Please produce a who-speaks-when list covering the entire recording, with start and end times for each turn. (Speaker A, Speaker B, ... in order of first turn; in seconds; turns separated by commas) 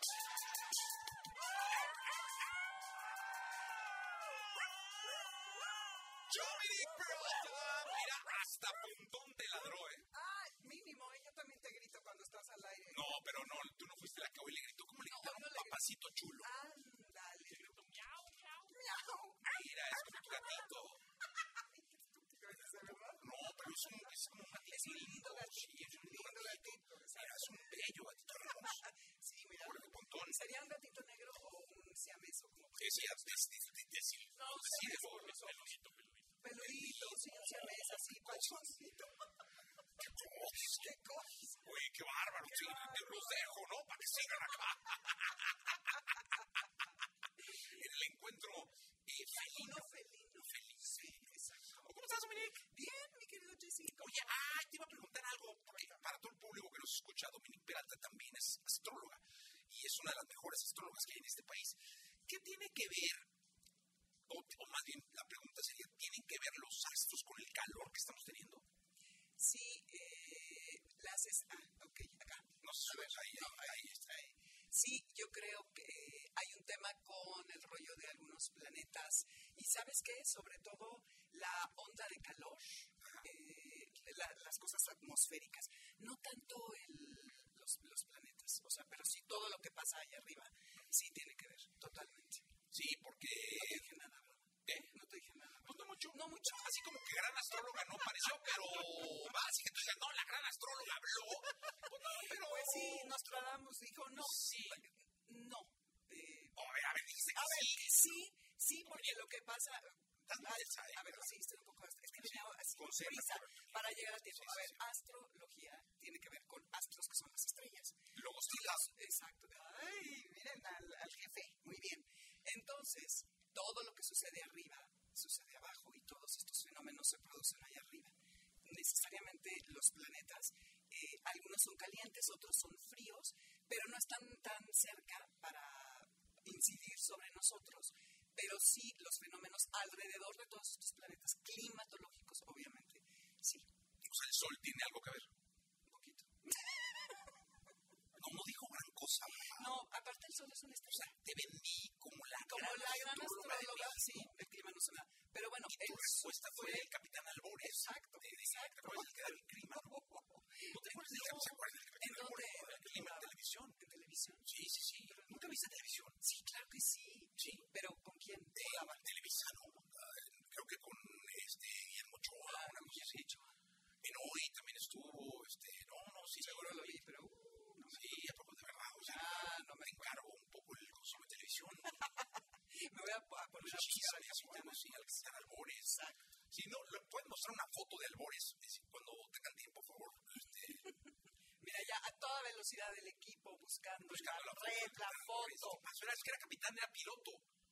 Speaker A: 4.4-5.2, Speaker A: 6.3-10.1, Speaker B: 10.1-13.2, Speaker A: 12.9-16.5, Speaker B: 15.1-20.8, Speaker A: 19.4-21.0, Speaker B: 21.4-23.3, Speaker A: 23.2-28.9, Speaker B: 24.6-27.8, Speaker B: 28.4-33.4, Speaker A: 29.6-30.4, Speaker A: 32.8-38.6, Speaker B: 34.3-35.7, Speaker B: 36.4-39.3, Speaker A: 40.0-40.9, Speaker B: 40.5-41.6, Speaker A: 41.5-46.1, Speaker B: 42.5-43.3, Speaker A: 47.6-49.9, Speaker B: 49.3-54.3, Speaker A: 50.5-51.2, Speaker A: 51.8-52.6, Speaker A: 54.0-63.3, Speaker A: 64.3-68.6, Speaker B: 69.4-92.5, Speaker A: 72.6-74.0, Speaker A: 92.7-93.9, Speaker B: 93.5-96.8, Speaker A: 95.6-103.2, Speaker B: 101.5-106.6, Speaker A: 104.2-104.8, Speaker A: 106.5-108.1, Speaker B: 107.3-143.7, Speaker A: 108.8-109.2, Speaker A: 110.2-111.3, Speaker A: 112.2-114.8, Speaker A: 118.1-118.9, Speaker A: 144.0-145.3, Speaker B: 145.8-147.4, Speaker A: 148.1-149.7, Speaker B: 149.4-151.2, Speaker A: 150.9-154.3, Speaker B: 152.4-156.9, Speaker A: 155.7-163.8, Speaker B: 157.6-169.1, Speaker A: 164.5-166.2, Speaker A: 167.4-167.7, Speaker A: 168.5-173.3, Speaker B: 172.4-173.6, Speaker A: 174.0-176.9, Speaker B: 176.4-178.2, Speaker A: 177.9-182.1, Speaker B: 179.0-180.1, Speaker B: 181.9-185.2, Speaker A: 183.6-186.0, Speaker B: 185.8-186.2, Speaker A: 186.5-190.9, Speaker B: 191.6-195.8, Speaker A: 194.1-197.4